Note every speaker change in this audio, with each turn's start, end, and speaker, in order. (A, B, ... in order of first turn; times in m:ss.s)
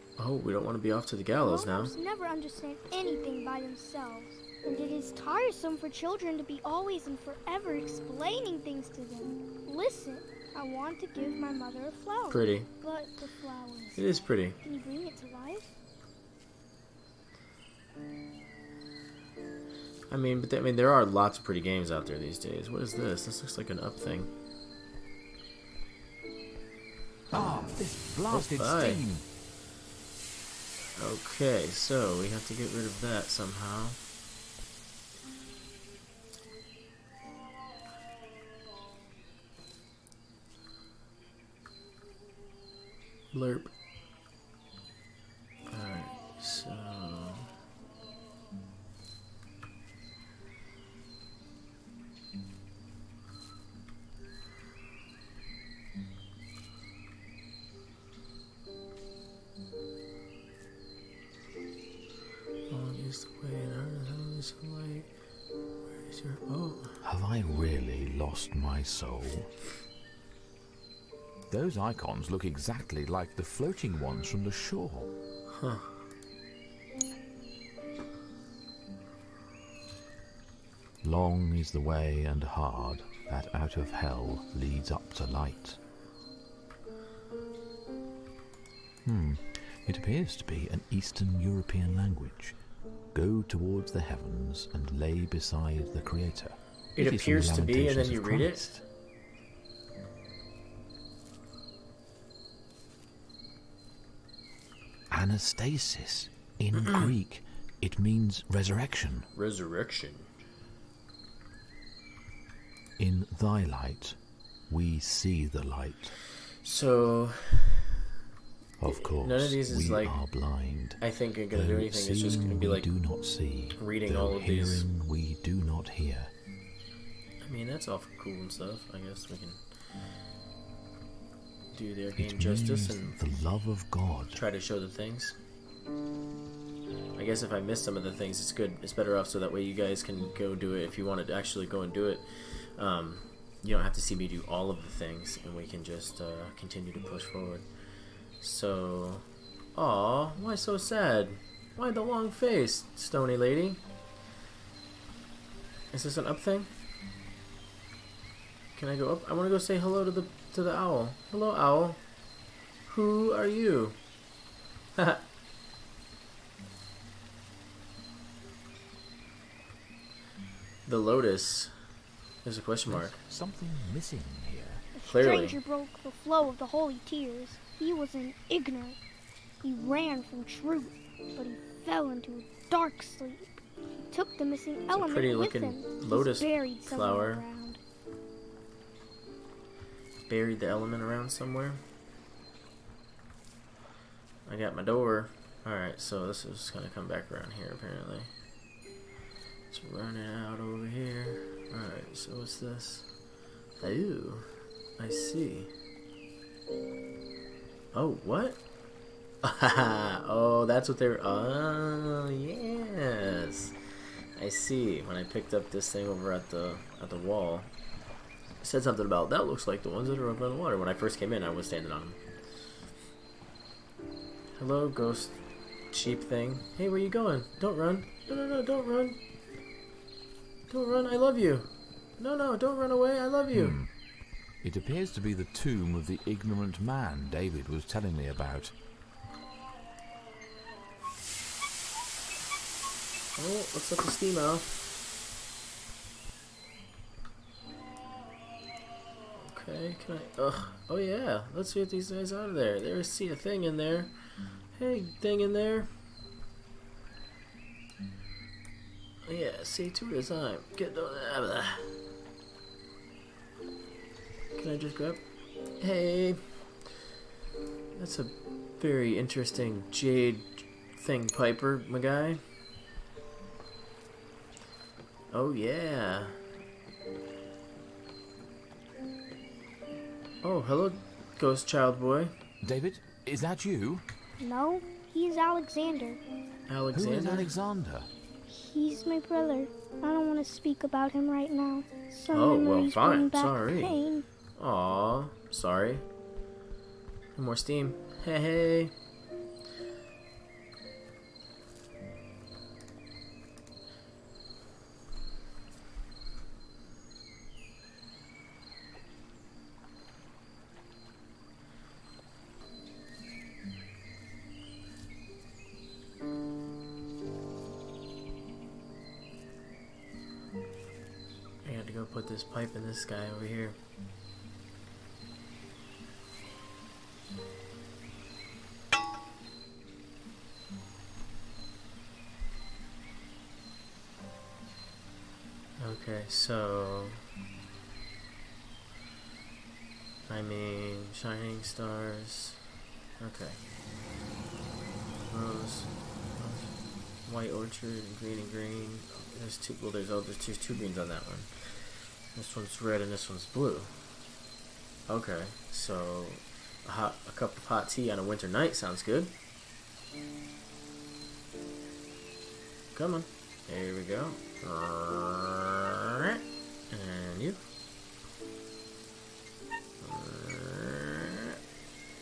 0:00.2-0:01.9 A
0:01.4-0:15.7 B
0:12.3-0:12.7 A
0:14.0-0:14.6 A
0:20.1-0:24.3 A
0:27.3-0:29.2 C
0:28.3-0:29.0 A
0:31.0-0:34.0 A
0:43.3-0:43.7 A
0:45.7-0:47.5 A
1:02.7-1:05.1 A
1:06.0-1:07.0 A
1:07.0-1:09.5 C
1:11.5-1:15.1 C
1:15.5-1:15.9 A
1:21.0-1:25.8 C
1:29.0-1:32.6 C
1:33.1-1:38.8 C
1:37.0-1:38.7 A
1:45.1-1:49.3 C
1:46.8-1:47.1 A
1:49.3-1:50.3 A
1:53.0-1:54.2 C
1:54.7-1:56.2 C
1:56.6-1:57.9 A
1:58.8-2:01.0 C
1:58.9-2:00.2 A
2:01.0-2:02.9 A
2:01.5-2:06.3 C
2:03.8-2:04.9 A
2:07.4-2:09.6 A
2:11.7-2:13.2 A
2:12.2-2:14.4 C
2:14.3-2:15.4 A
2:17.2-2:22.2 A
2:22.8-2:27.7 A
2:28.4-2:33.8 A
2:35.9-2:36.7 A
2:38.8-2:42.0 A
2:42.9-2:44.0 A
2:45.0-2:45.2 A
2:50.9-2:51.7 A
2:52.4-2:53.2 A
2:52.9-2:54.8 C
2:55.0-2:59.0 B
2:55.0-2:55.6 A
2:59.6-3:03.6 B
3:04.1-3:07.8 B
3:04.9-3:07.4 A
3:10.3-3:11.8 A
3:14.5-3:18.3 A
3:19.7-3:23.1 A
3:23.8-3:24.5 A
3:25.0-3:25.7 A
3:27.9-3:28.6 A
3:29.4-3:33.8 A
3:34.4-3:37.7 A
3:38.6-3:42.2 A
3:44.6-3:45.4 A
3:45.9-3:49.2 A
3:50.7-3:53.8 A
3:53.5-3:53.9 C
3:54.6-3:58.7 C
4:03.4-4:04.8 A
4:09.4-4:14.1 A
4:14.8-4:15.9 A
4:19.3-4:21.9 A
4:24.6-4:25.2 A
4:25.8-4:26.4 A
4:28.0-4:32.4 A
4:35.3-4:36.4 A
4:40.4-4:42.3 A
4:42.6-4:44.0 C
4:44.4-4:46.2 B
4:46.7-4:47.5 A
4:46.9-4:48.1 C
4:48.5-4:54.3 B
4:52.3-4:54.0 A
4:54.6-4:56.0 A
4:57.4-4:58.9 A
5:21.6-5:23.8 A
5:35.8-5:37.2 A
5:40.3-5:42.6 A
5:43.2-5:43.6 A
5:45.3-5:53.9 A
5:55.1-5:59.3 A
6:03.0-6:06.4 A
6:06.9-6:07.6 A
6:10.0-6:11.5 A